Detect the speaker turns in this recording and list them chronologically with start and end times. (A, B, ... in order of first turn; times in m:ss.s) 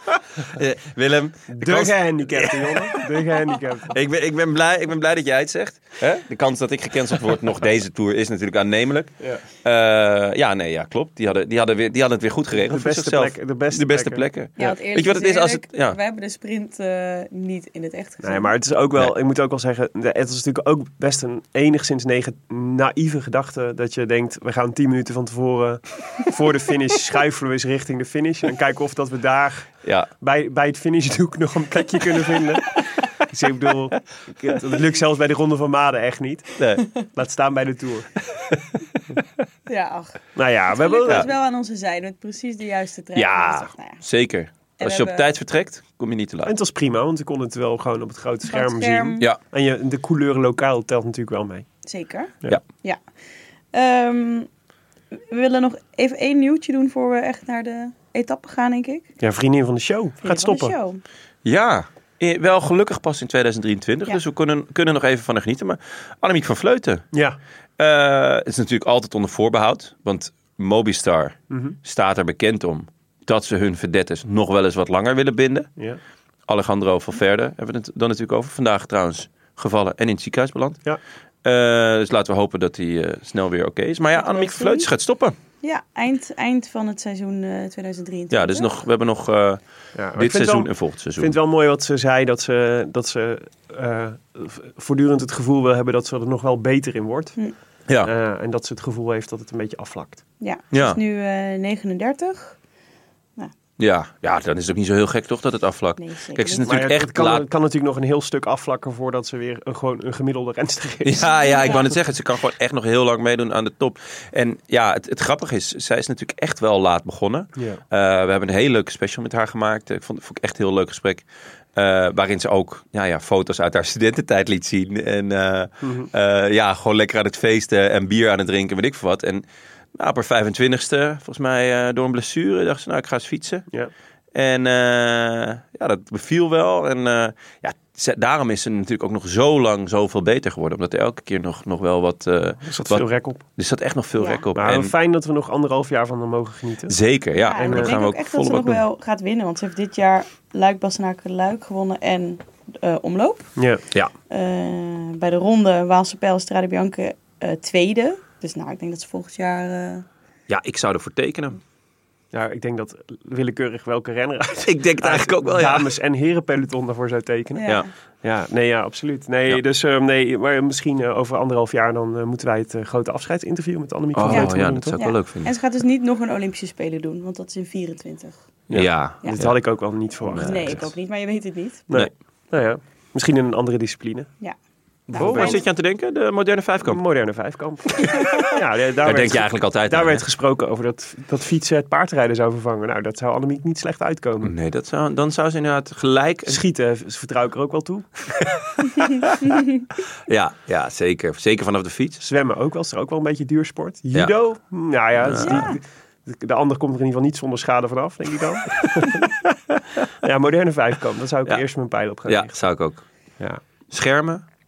0:00.5-0:03.1 A
0:01.5-0:04.0 B
0:03.9-0:16.0 A
0:12.5-0:14.8 B
0:14.6-0:18.5 C
0:18.2-0:38.6 B
0:36.6-0:36.9 A
0:39.7-0:40.2 C
0:40.4-0:41.3 B
0:40.7-0:44.0 C
0:43.2-0:46.5 A
0:44.8-0:45.2 C
0:46.4-0:51.6 B
0:48.5-0:49.3 C
0:51.8-0:53.0 C
0:53.7-0:54.5 C
0:55.1-0:59.1 C
0:59.2-1:00.8 B
1:00.2-1:01.0 C
1:01.4-1:07.0 A
1:07.1-1:07.4 B
1:07.8-1:15.7 A
1:11.5-1:11.8 B
1:16.5-1:20.8 A
1:21.4-1:25.3 A
1:24.2-1:24.9 C
1:25.6-1:28.7 C
1:28.3-1:29.6 A
1:29.9-1:37.4 B
1:30.2-1:31.3 A
1:38.0-1:40.2 B
1:40.4-1:42.6 C
1:40.7-1:41.0 A
1:43.8-1:47.4 A
1:46.0-1:46.7 C
1:46.6-1:51.9 B
1:51.0-2:01.2 A
1:51.2-1:51.9 C
2:01.8-2:13.6 A
2:05.8-2:06.1 B
2:14.3-2:24.9 A
2:22.6-2:23.4 B
2:24.2-2:24.4 C
2:24.5-2:27.0 B
2:26.9-2:28.8 A
2:27.4-2:33.5 C
2:27.6-2:27.9 B
2:33.6-2:33.8 B
2:34.3-2:40.0 C
2:40.5-2:41.6 A
2:42.3-2:47.7 B
2:44.6-2:45.9 A
2:47.5-2:47.9 C
2:48.2-2:55.0 B
2:54.1-2:55.5 A
2:54.3-2:58.4 C
2:58.7-3:00.8 B
2:58.7-2:59.6 A
3:00.3-3:00.9 A
3:00.4-3:01.8 C
3:01.9-3:04.3 B
3:05.1-3:05.6 C
3:05.1-3:07.0 A
3:05.1-3:05.6 B
3:06.8-3:14.5 B
3:08.0-3:08.3 A
3:09.0-3:10.2 A
3:14.4-3:16.6 A
3:16.4-3:18.1 B
3:18.4-3:19.4 A
3:20.3-3:22.2 A
3:22.2-3:29.5 B
3:25.2-3:25.7 A
3:25.4-3:25.8 C
3:30.2-3:32.5 B
3:32.3-3:33.0 A
3:33.9-3:34.4 A